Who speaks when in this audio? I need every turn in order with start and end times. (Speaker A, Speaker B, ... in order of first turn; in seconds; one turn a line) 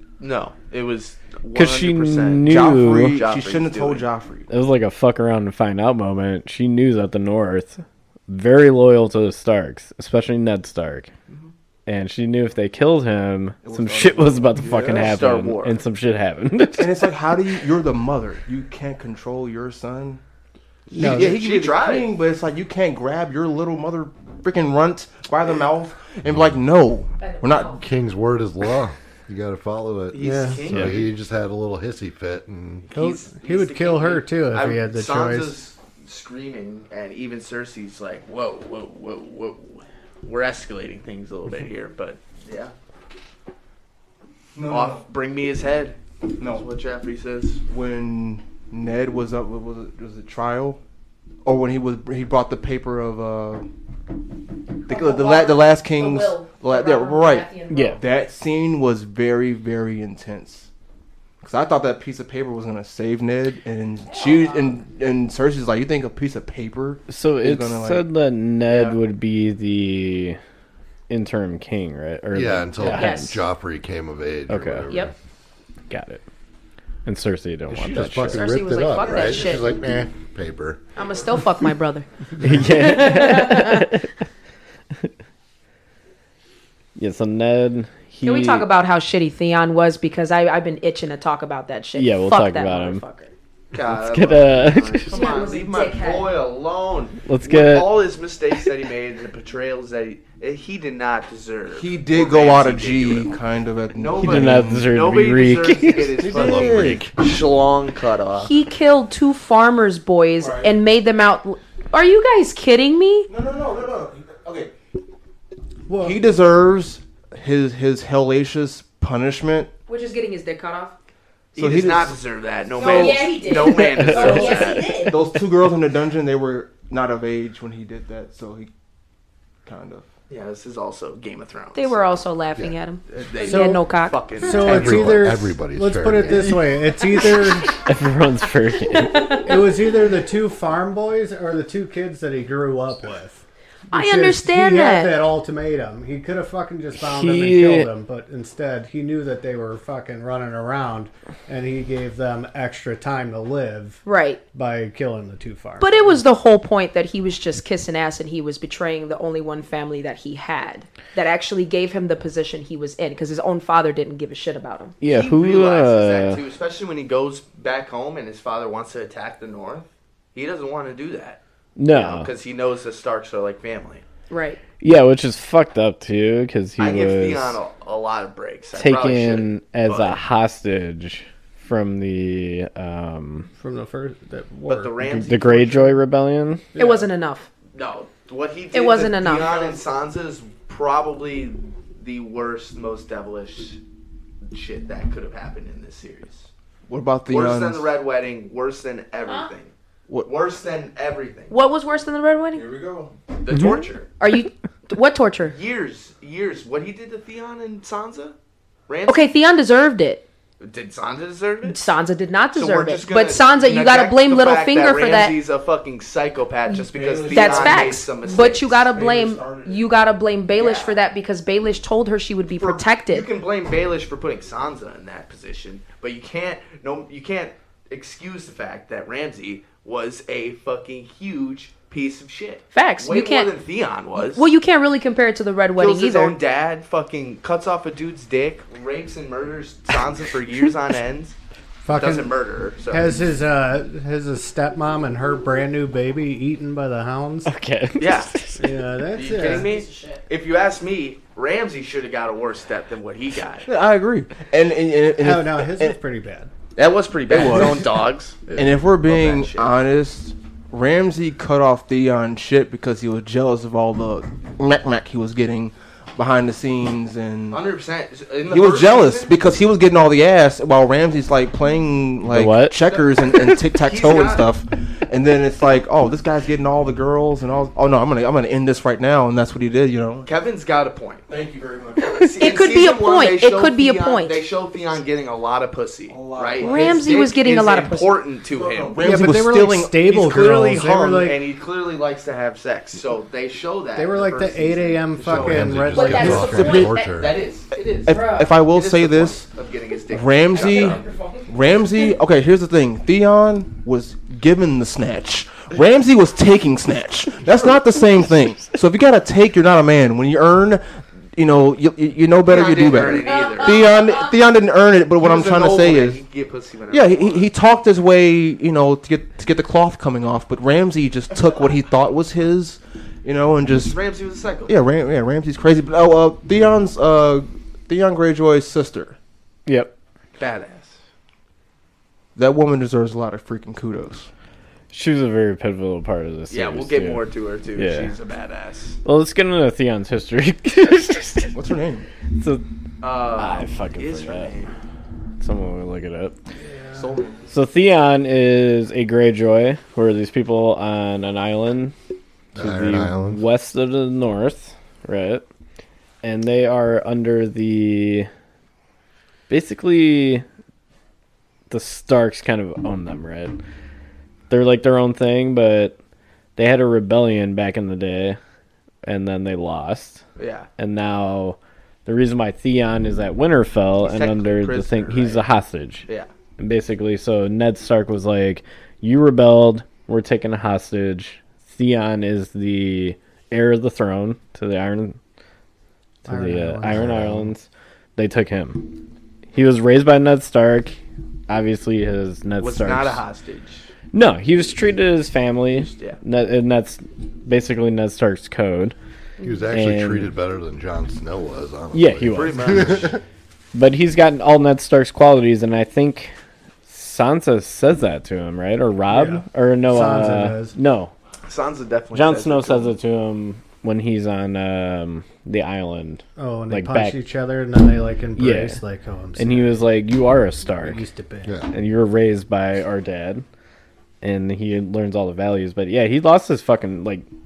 Speaker A: 0.2-4.1
Speaker B: 1.5-3.2
Speaker C: 2.4-4.5
Speaker B: 4.5-11.1
Speaker B: 11.9-17.1
Speaker D: 13.7-14.7
Speaker C: 13.7-15.1
Speaker A: 14.9-15.8
Speaker C: 16.8-20.2
Speaker C: 20.9-27.8
Speaker E: 20.9-21.4
Speaker A: 21.0-22.1
Speaker F: 26.2-26.6
Speaker G: 27.2-27.8
Speaker F: 27.8-32.9
Speaker A: 30.1-31.1
Speaker E: 30.2-30.7
Speaker B: 30.7-31.0
Speaker A: 32.9-42.7
Speaker E: 32.9-35.6
Speaker D: 44.5-45.1
Speaker A: 44.7-47.6
Speaker C: 47.7-50.8
Speaker C: 51.5-53.7
Speaker G: 54.9-58.1
Speaker C: 54.9-57.5
Speaker B: 57.7-58.0
Speaker C: 58.0-60.7
Speaker C: 61.4-68.1
Speaker G: 64.1-64.8
Speaker B: 67.1-70.4
Speaker A: 68.7-69.0
Speaker B: 71.1-73.4
Speaker F: 72.3-75.1
Speaker G: 72.8-73.3
Speaker B: 74.5-74.9
Speaker B: 75.9-76.2
Speaker B: 77.0-78.5
Speaker F: 77.7-80.8
Speaker G: 78.3-79.8
Speaker D: 79.0-79.6
Speaker G: 81.0-84.0
Speaker B: 82.4-84.1
Speaker B: 87.0-88.7
Speaker G: 88.2-93.3
Speaker B: 91.9-93.0
Speaker A: 93.7-103.3
Speaker B: 93.8-95.3
Speaker G: 95.1-96.4
Speaker B: 97.3-98.0
Speaker C: 101.8-105.0
Speaker A: 103.9-108.5
Speaker B: 104.2-106.2
Speaker C: 106.2-107.0
Speaker F: 106.3-107.1
Speaker G: 108.4-113.3
Speaker D: 110.3-110.7
Speaker D: 113.3-114.7
Speaker E: 115.9-116.2
Speaker C: 116.0-119.7
Speaker G: 119.9-121.0
Speaker A: 121.5-125.0
Speaker C: 121.6-122.2
Speaker G: 122.8-125.3
Speaker D: 122.8-123.2
Speaker D: 124.2-125.2
Speaker C: 125.0-128.7
Speaker C: 129.7-130.0
Speaker A: 130.3-132.1
Speaker G: 131.8-134.7
Speaker A: 133.1-135.2
Speaker E: 133.4-137.8
Speaker F: 134.6-136.6
Speaker B: 137.8-139.5
Speaker G: 138.9-139.8
Speaker E: 139.4-154.0
Speaker G: 143.9-145.2
Speaker B: 147.0-147.9
Speaker G: 154.1-154.4
Speaker E: 154.5-156.2
Speaker G: 155.8-165.0
Speaker B: 165.0-166.4
Speaker A: 165.1-174.0
Speaker B: 171.8-172.3
Speaker G: 174.3-174.6
Speaker B: 174.8-177.6
Speaker A: 176.8-180.2
Speaker B: 178.8-183.5
Speaker E: 183.6-185.0
Speaker A: 184.7-185.9
Speaker B: 185.0-186.7
Speaker E: 186.8-187.1
Speaker G: 186.8-187.5
Speaker A: 187.7-193.8
Speaker G: 188.7-189.8
Speaker A: 194.4-196.5
Speaker C: 196.9-197.9
Speaker A: 197.3-201.5
Speaker G: 199.3-199.5
Speaker G: 201.5-202.7
Speaker D: 202.5-203.1
Speaker A: 203.4-204.1
Speaker G: 204.2-205.6
Speaker A: 205.5-208.4
Speaker A: 208.9-209.3
Speaker G: 209.1-210.2
Speaker A: 210.6-211.8
Speaker G: 211.7-215.4
Speaker A: 212.5-218.8
Speaker G: 216.7-223.3
Speaker D: 216.8-218.1
Speaker D: 218.9-219.9
Speaker A: 220.6-221.0
Speaker A: 222.6-234.5
Speaker G: 232.7-233.5
Speaker G: 234.2-236.4
Speaker A: 235.8-241.4
Speaker E: 241.8-242.4
Speaker A: 241.9-243.2
Speaker E: 242.9-247.5
Speaker B: 247.5-248.7
Speaker A: 248.0-248.4
Speaker E: 248.6-249.7
Speaker A: 249.1-253.7
Speaker G: 249.3-250.2
Speaker C: 253.7-256.0
Speaker E: 255.2-256.5
Speaker A: 256.8-258.4
Speaker C: 257.3-257.9
Speaker C: 258.6-267.6
Speaker A: 259.0-259.8
Speaker A: 267.5-269.4
Speaker C: 268.5-280.3
Speaker B: 272.3-272.8
Speaker A: 272.9-274.5
Speaker A: 280.3-281.3
Speaker D: 281.3-282.3
Speaker A: 282.1-289.2
Speaker G: 282.4-284.4
Speaker D: 286.1-287.1
Speaker G: 286.6-288.2
Speaker D: 288.5-289.3
Speaker C: 288.9-290.4
Speaker E: 289.0-291.4
Speaker A: 290.1-301.1
Speaker E: 293.9-296.6
Speaker F: 295.3-297.4
Speaker G: 295.9-297.4
Speaker C: 296.3-296.9
Speaker C: 298.1-299.5
Speaker G: 298.1-298.5
Speaker C: 300.1-316.2
Speaker G: 300.5-301.5
Speaker A: 312.4-313.9
Speaker G: 312.9-314.2
Speaker A: 315.2-317.5
Speaker C: 316.9-324.0
Speaker A: 323.7-324.7
Speaker C: 324.7-329.2
Speaker B: 329.7-329.9
Speaker A: 330.4-331.0
Speaker C: 332.4-334.3
Speaker B: 334.9-338.1
Speaker A: 336.5-339.0
Speaker B: 339.1-341.6
Speaker C: 341.5-342.1
Speaker B: 342.4-342.6
Speaker A: 343.0-344.7
Speaker B: 343.3-344.5
Speaker B: 345.4-346.4
Speaker D: 347.0-347.4
Speaker C: 347.0-347.2
Speaker B: 347.5-351.9
Speaker F: 352.6-353.4
Speaker B: 352.6-355.4
Speaker B: 356.2-358.3
Speaker B: 359.5-360.4
Speaker B: 361.7-363.6
Speaker B: 364.5-366.0
Speaker B: 366.6-368.4
Speaker B: 369.0-370.2
Speaker A: 370.4-370.7
Speaker B: 370.8-376.1
Speaker A: 374.0-375.5
Speaker B: 376.6-385.2
Speaker E: 386.2-387.4
Speaker B: 386.2-388.9
Speaker F: 387.0-387.4
Speaker B: 389.5-391.0
Speaker B: 391.5-393.2
Speaker A: 392.6-393.9
Speaker B: 394.1-398.9
Speaker A: 395.9-396.2
Speaker F: 399.4-403.2
Speaker B: 399.7-400.3
Speaker B: 401.9-402.8
Speaker A: 402.3-403.1
Speaker B: 403.7-406.3
Speaker B: 406.9-411.1
Speaker E: 409.1-410.8
Speaker A: 411.5-413.0
Speaker B: 412.1-417.2
Speaker E: 416.4-419.9
Speaker B: 418.4-418.8
Speaker B: 419.4-421.0
Speaker E: 420.8-421.6
Speaker F: 421.4-421.7
Speaker B: 421.7-423.4
Speaker B: 424.2-427.3